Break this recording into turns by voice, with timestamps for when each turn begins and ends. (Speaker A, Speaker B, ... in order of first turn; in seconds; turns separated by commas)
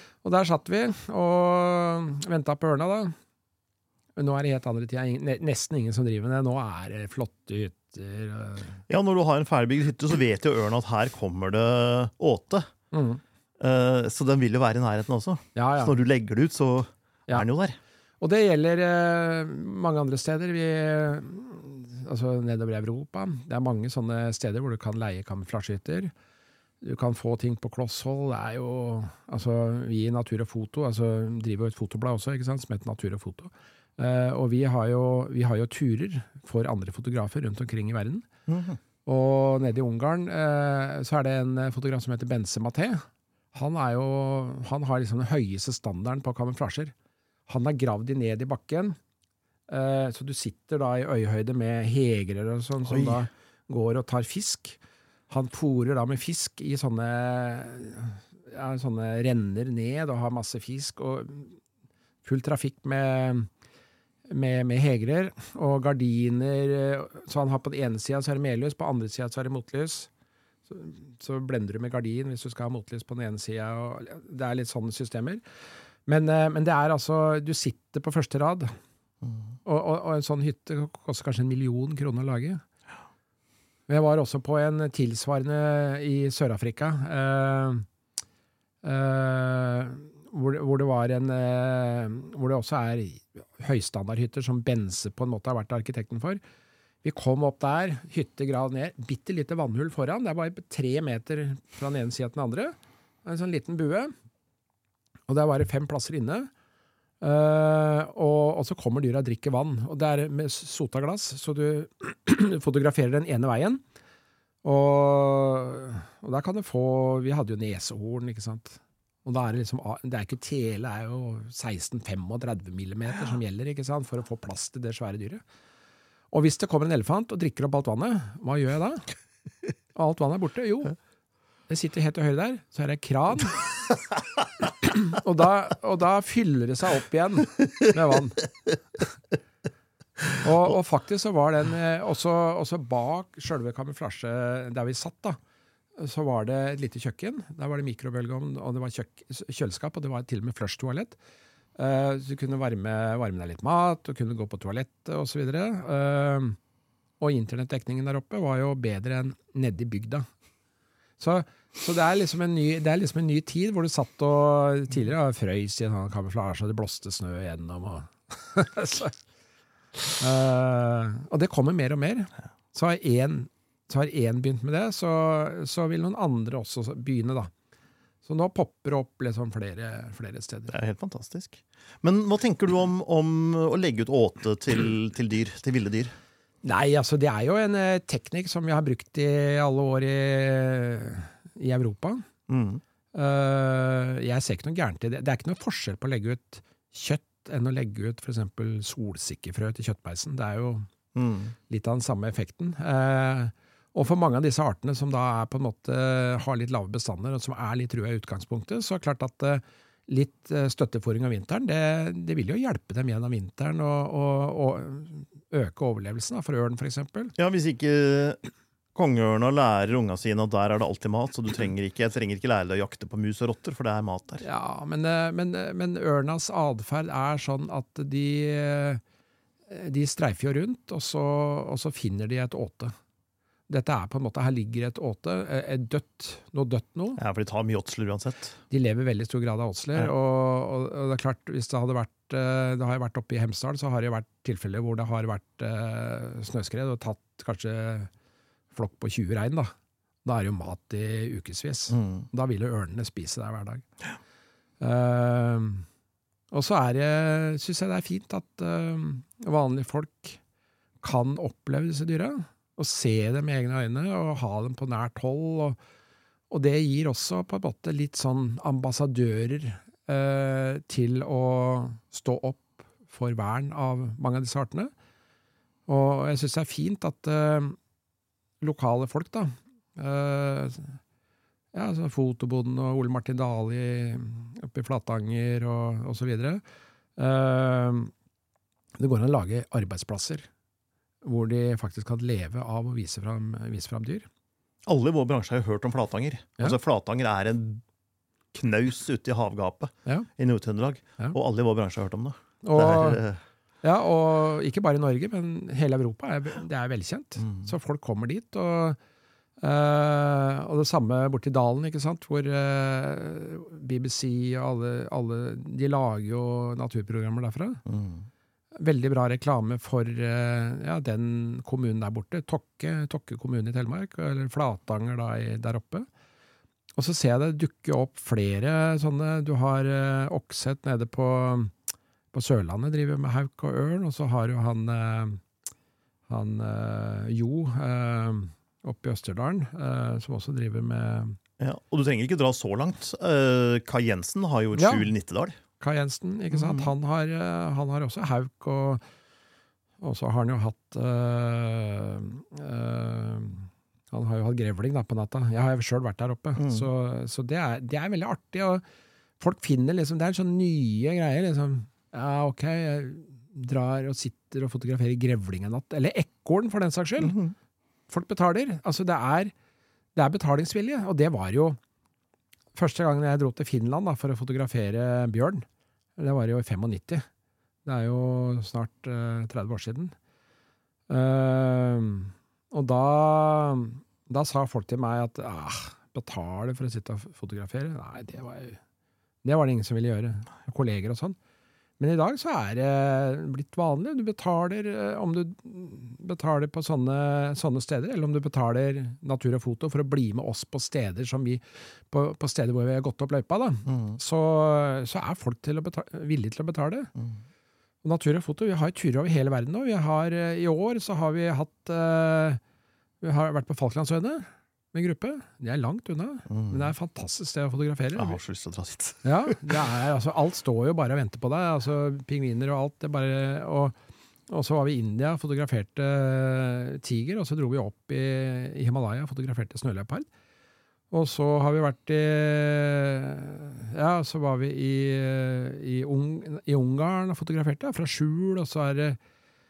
Speaker A: 0.2-3.1, Speaker A: 4.2-8.8, Speaker B: 8.9-12.7, Speaker A: 12.9-13.2, Speaker B: 13.6-17.8, Speaker A: 15.6-16.0, Speaker A: 18.2-26.1, Speaker A: 26.8-38.3, Speaker B: 38.5-38.8, Speaker A: 39.0-46.9, Speaker A: 47.5-49.0, Speaker A: 49.7-54.8, Speaker B: 52.9-53.2, Speaker A: 55.3-61.6, Speaker A: 62.2-63.5, Speaker A: 64.3-70.1, Speaker A: 70.7-75.4, Speaker A: 76.1-78.7, Speaker A: 79.7-82.6, Speaker A: 83.9-87.9, Speaker A: 88.8-96.4, Speaker A: 97.0-102.7, Speaker A: 103.2-104.1, Speaker A: 105.3-106.5, Speaker A: 107.2-113.8, Speaker A: 114.6-125.4, Speaker A: 126.3-129.1, Speaker A: 129.9-130.9, Speaker A: 131.7-133.8, Speaker A: 134.8-138.5, Speaker A: 140.4-145.4, Speaker A: 146.0-151.2, Speaker A: 151.8-156.6, Speaker A: 157.2-160.3, Speaker A: 161.2-169.2, Speaker A: 170.2-177.5, Speaker A: 178.2-180.7, Speaker B: 180.7-186.1, Speaker A: 186.6-192.3, Speaker B: 192.5-192.8, Speaker A: 193.1-200.9, Speaker B: 201.2-201.6, Speaker A: 201.7-217.3, Speaker B: 217.4-218.4, Speaker B: 218.9-224.4, Speaker A: 224.4-229.0, Speaker A: 229.7-232.9, Speaker A: 233.7-237.2, Speaker B: 237.2-238.6, Speaker A: 238.7-248.1, Speaker A: 248.7-249.7, Speaker A: 250.2-253.9, Speaker B: 251.9-252.3, Speaker A: 254.8-255.9, Speaker A: 256.5-260.4, Speaker A: 261.0-265.8, Speaker A: 266.5-274.9, Speaker A: 275.9-277.8, Speaker A: 278.6-281.0, Speaker A: 281.7-286.6, Speaker A: 287.2-288.1, Speaker A: 289.0-290.5, Speaker A: 291.2-294.3, Speaker B: 294.9-297.8, Speaker B: 298.5-303.4, Speaker A: 302.6-303.2, Speaker A: 303.8-309.0, Speaker A: 309.6-317.8, Speaker B: 317.9-318.3, Speaker A: 318.8-326.1, Speaker A: 327.0-331.7, Speaker A: 332.3-335.4, Speaker A: 336.3-341.4, Speaker B: 341.6-345.6, Speaker A: 344.8-345.1, Speaker A: 345.8-349.0, Speaker B: 346.5-346.9, Speaker A: 350.0-358.8, Speaker B: 356.6-356.9, Speaker A: 359.4-367.4, Speaker B: 367.2-367.5, Speaker A: 368.1-369.5, Speaker A: 370.2-371.8, Speaker A: 372.8-375.6, Speaker A: 376.2-377.3, Speaker A: 377.9-380.1, Speaker A: 381.1-388.8, Speaker A: 389.4-391.4, Speaker A: 392.0-407.1, Speaker B: 403.9-404.2, Speaker A: 408.0-412.6, Speaker A: 413.2-418.4, Speaker B: 416.5-416.9, Speaker B: 418.2-419.8, Speaker A: 419.2-424.0, Speaker A: 424.5-430.3, Speaker A: 431.1-439.2